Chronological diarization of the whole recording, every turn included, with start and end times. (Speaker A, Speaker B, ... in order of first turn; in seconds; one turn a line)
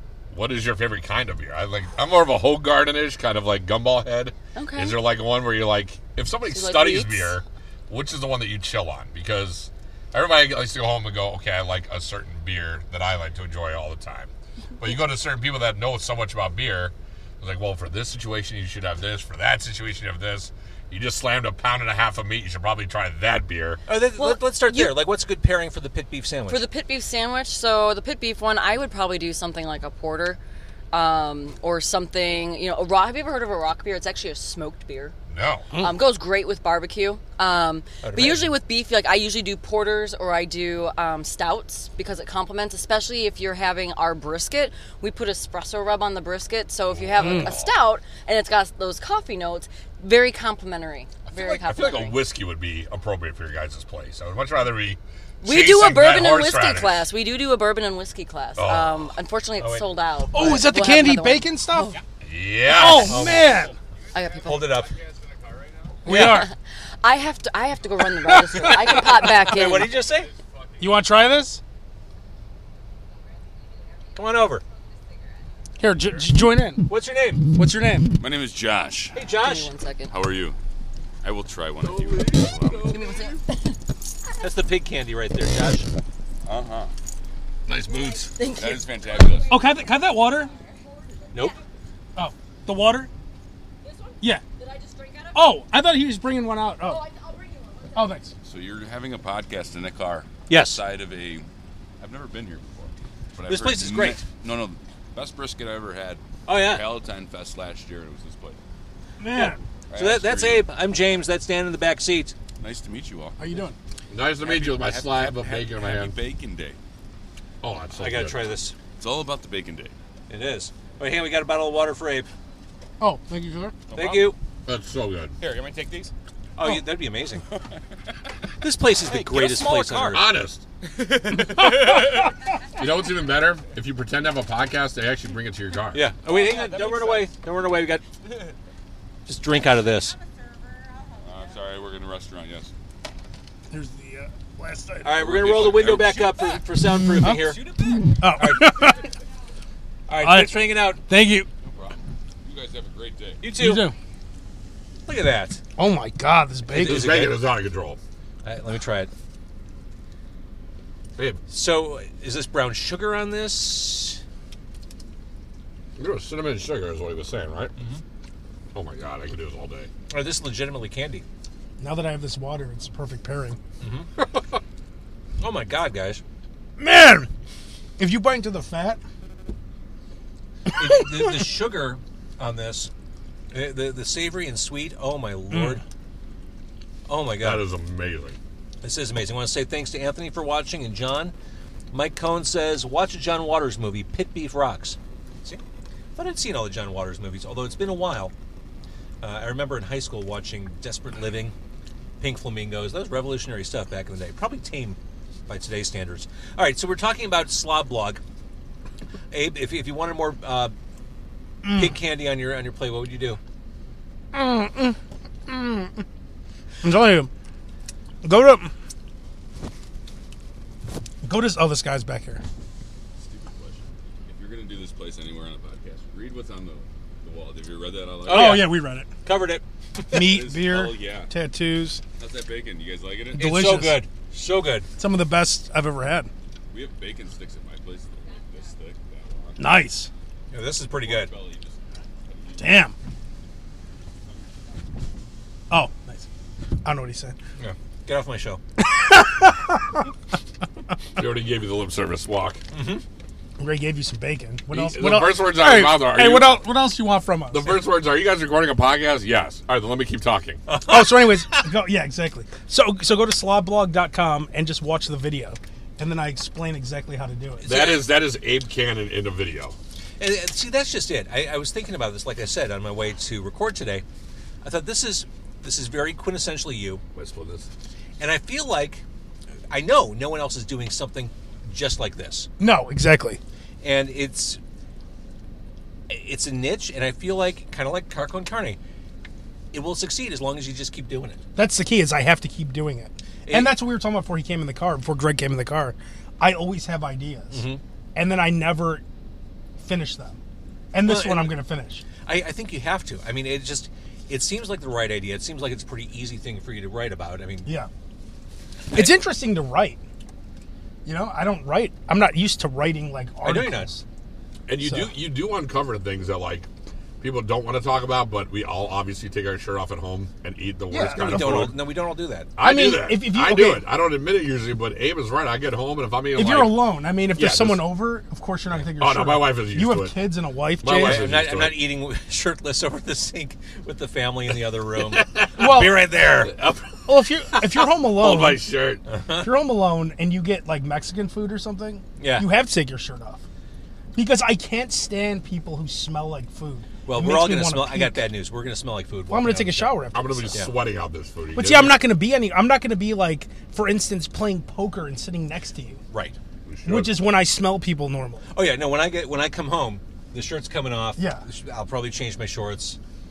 Speaker A: 0.3-23.8
Speaker B: 4.5-5.0
Speaker B: 6.5-7.4
Speaker C: 23.9-26.6
Speaker B: 24.2-24.9
Speaker B: 26.5-30.4
Speaker B: 30.9-35.1
Speaker A: 35.3-35.7
Speaker B: 35.8-52.2
Speaker C: 38.0-38.5
Speaker A: 46.9-47.7
Speaker D: 47.2-47.5
Speaker A: 51.3-57.0
Speaker B: 55.4-62.0
Speaker A: 58.5-59.1
Speaker C: 59.6-59.9
Speaker D: 60.3-61.9
Speaker A: 62.2-63.2
Speaker D: 62.7-63.7
Speaker C: 62.7-63.7
Speaker B: 64.1-64.8
Speaker C: 64.4-64.9
Speaker D: 66.0-66.5
Speaker C: 66.1-66.4
Speaker B: 66.2-66.5
Speaker B: 67.0-69.9
Speaker D: 68.3-68.9
Speaker C: 69.3-70.3
Speaker D: 70.8-71.6
Speaker C: 74.1-74.6
Speaker D: 75.8-76.8
Speaker C: 76.9-77.4
Speaker D: 77.5-78.1
Speaker E: 78.2-79.2
Speaker C: 79.1-79.7
Speaker B: 79.3-80.1
Speaker E: 80.1-80.5
Speaker E: 81.2-83.1
Speaker A: 81.8-83.3
Speaker B: 82.9-83.8
Speaker C: 84.4-85.9
Speaker E: 86.5-86.9
Speaker A: 87.7-88.4
Speaker B: 88.3-89.4
Speaker E: 88.4-89.6
Speaker D: 89.5-90.5
Speaker C: 91.3-91.6
Speaker D: 92.2-93.1
Speaker D: 95.3-97.0
Speaker D: 97.9-98.3
Speaker E: 98.4-101.5
Speaker C: 100.5-100.8
Speaker E: 102.0-108.6
Speaker C: 103.5-104.2
Speaker C: 106.5-106.8
Speaker D: 109.2-109.6
Speaker C: 109.3-112.3
Speaker E: 109.9-110.7
Speaker E: 112.6-113.7
Speaker D: 113.4-113.8
Speaker A: 114.1-116.1
Speaker E: 114.4-116.8
Speaker A: 117.6-118.4
Speaker C: 118.0-118.8
Speaker E: 119.0-119.9
Speaker C: 120.3-122.3
Speaker D: 123.0-123.8
Speaker E: 123.9-124.3
Speaker C: 123.9-124.3
Speaker A: 124.7-125.3
Speaker E: 125.4-126.1
Speaker C: 126.6-127.4
Speaker E: 127.5-127.8
Speaker C: 128.6-130.3
Speaker E: 129.1-130.2
Speaker A: 130.1-130.6
Speaker E: 130.9-132.3
Speaker A: 132.8-136.0
Speaker C: 135.9-138.0
Speaker E: 136.2-137.3
Speaker E: 138.2-138.5
Speaker C: 139.2-140.2
Speaker E: 141.2-142.7
Speaker D: 143.7-145.1
Speaker C: 145.0-148.9
Speaker E: 145.1-146.5
Speaker D: 147.2-149.0
Speaker E: 147.5-147.9
Speaker C: 150.1-151.0
Speaker D: 150.2-150.5
Speaker D: 151.1-151.5
Speaker E: 151.7-153.5
Speaker C: 153.4-153.9
Speaker D: 153.6-153.9
Speaker C: 155.1-155.6
Speaker D: 155.8-157.2
Speaker C: 156.7-157.5
Speaker A: 156.8-158.0
Speaker C: 158.4-159.1
Speaker C: 161.5-164.2
Speaker A: 166.0-167.7
Speaker A: 168.7-169.9
Speaker C: 170.1-171.2
Speaker D: 171.8-173.6
Speaker C: 173.8-174.1
Speaker A: 174.2-174.6
Speaker C: 175.4-176.2
Speaker D: 176.8-177.3
Speaker D: 178.0-179.0
Speaker C: 180.7-182.9
Speaker C: 183.5-185.8
Speaker D: 185.5-185.8
Speaker C: 187.1-187.7
Speaker A: 187.4-188.4
Speaker C: 188.8-191.3
Speaker C: 191.9-195.6
Speaker C: 196.2-198.3
Speaker C: 199.2-201.5
Speaker C: 202.2-208.2
Speaker C: 209.3-210.7
Speaker D: 211.6-211.9
Speaker C: 211.7-213.4
Speaker D: 214.3-214.9
Speaker D: 215.5-216.0
Speaker D: 216.8-217.3
Speaker D: 218.2-218.7
Speaker D: 221.2-222.4
Speaker E: 223.2-228.7
Speaker C: 228.2-230.3
Speaker D: 228.3-229.1
Speaker D: 230.1-232.0
Speaker E: 230.1-231.3
Speaker E: 232.2-233.5
Speaker D: 233.3-234.0
Speaker C: 233.3-234.9
Speaker D: 235.0-236.3
Speaker E: 236.7-239.6
Speaker D: 239.6-240.1
Speaker C: 240.5-241.3
Speaker E: 241.0-242.9
Speaker D: 242.6-242.9
Speaker D: 245.7-246.2
Speaker D: 246.8-247.3
Speaker C: 247.6-248.6
Speaker D: 248.8-249.9
Speaker A: 251.2-252.6
Speaker C: 252.7-253.0
Speaker D: 253.6-257.8
Speaker A: 254.7-256.6
Speaker A: 257.5-260.6
Speaker C: 260.7-261.6
Speaker D: 260.9-267.6
Speaker C: 267.6-268.1
Speaker A: 267.6-269.8
Speaker C: 270.2-274.0
Speaker C: 274.6-277.0
Speaker A: 277.1-277.7
Speaker C: 278.2-279.0
Speaker C: 279.7-282.5
Speaker D: 282.6-283.4
Speaker C: 283.8-284.6
Speaker C: 286.1-288.8
Speaker C: 289.7-291.4
Speaker D: 291.6-297.6
Speaker C: 293.4-293.7
Speaker C: 297.5-297.8
Speaker D: 298.1-299.0
Speaker D: 299.8-300.4
Speaker D: 300.9-302.0
Speaker C: 301.0-301.5
Speaker C: 302.2-307.7
Speaker C: 308.9-309.2
Speaker D: 308.9-310.0
Speaker D: 311.0-314.0
Speaker C: 313.4-314.0
Speaker A: 314.7-316.7
Speaker D: 314.8-315.1
Speaker A: 317.2-321.7
Speaker D: 320.9-321.7
Speaker C: 321.1-322.5
Speaker A: 322.6-327.8
Speaker D: 322.6-323.8
Speaker D: 326.3-331.3
Speaker A: 328.9-330.1
Speaker A: 330.8-331.8
Speaker C: 331.0-336.7
Speaker A: 335.0-335.8
Speaker D: 335.6-336.0
Speaker A: 336.4-339.0
Speaker D: 337.1-338.7
Speaker C: 339.1-339.5
Speaker D: 339.4-343.4
Speaker C: 342.2-342.5
Speaker D: 344.1-348.2
Speaker C: 347.1-350.0
Speaker D: 349.3-350.5
Speaker A: 350.1-352.0
Speaker D: 351.5-356.0
Speaker C: 356.1-356.4
Speaker A: 356.6-357.2
Speaker D: 356.9-358.4
Speaker C: 358.5-363.0
Speaker D: 361.2-361.4